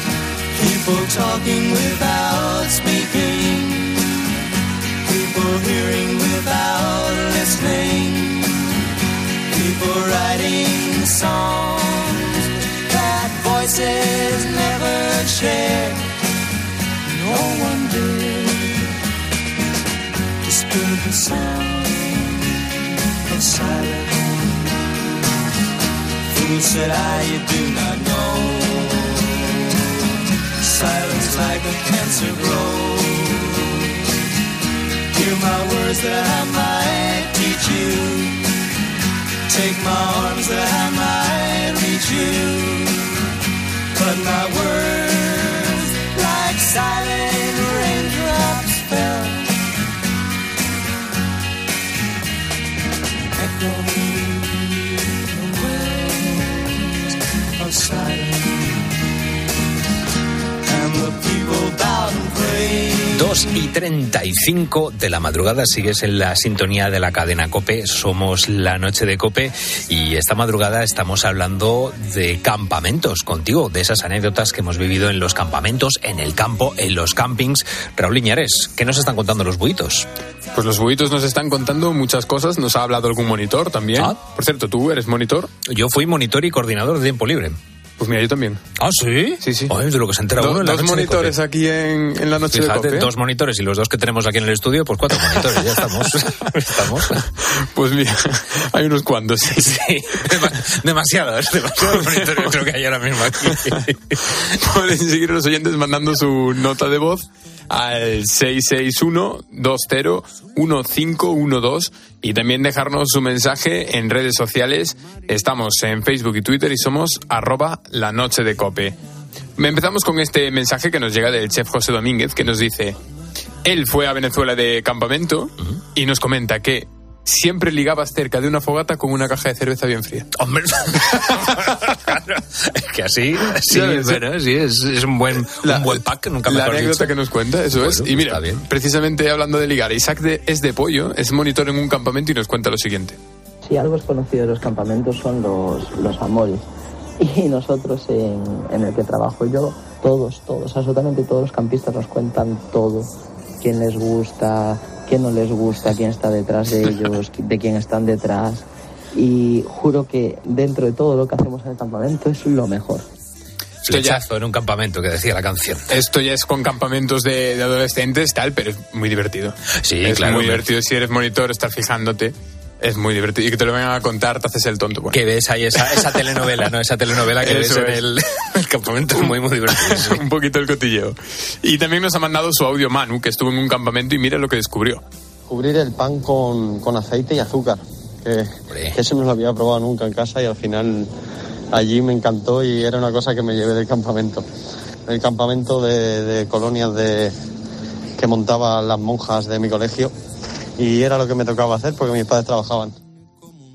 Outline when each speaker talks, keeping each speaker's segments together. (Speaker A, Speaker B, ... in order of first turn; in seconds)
Speaker A: 0.5-4.2, 5.0-8.7, 9.5-16.0, 17.1-18.9, 20.4-22.4, 23.3-24.7, 26.3-29.4, 30.6-33.8, 35.1-38.5, 39.5-43.1, 43.9-49.5, 53.4-58.8, 60.6-63.3
Speaker B: 63.1-80.0, 85.7-87.6, 88.8-91.3, 92.5-97.2, 99.6-104.2, 130.4-137.1, 137.8-138.6, 163.9-165.9, 169.8-170.6, 175.1-180.2, 188.7-188.9
Speaker C: 80.5-85.5, 88.0-88.6, 89.4-89.7, 90.4-93.1, 97.6-99.8, 101.9-102.5, 104.6-119.0, 119.6-123.0, 123.6-130.3, 133.7-134.2, 135.6-143.2, 163.9-164.2, 165.9-175.2, 177.4-178.0, 179.1-185.0
Speaker D: 143.7-146.6, 147.2-153.1, 153.6-163.1
Speaker E: 185.5-191.1, 191.7-194.4, 195.1-197.3, 198.2-200.1, 200.8-202.9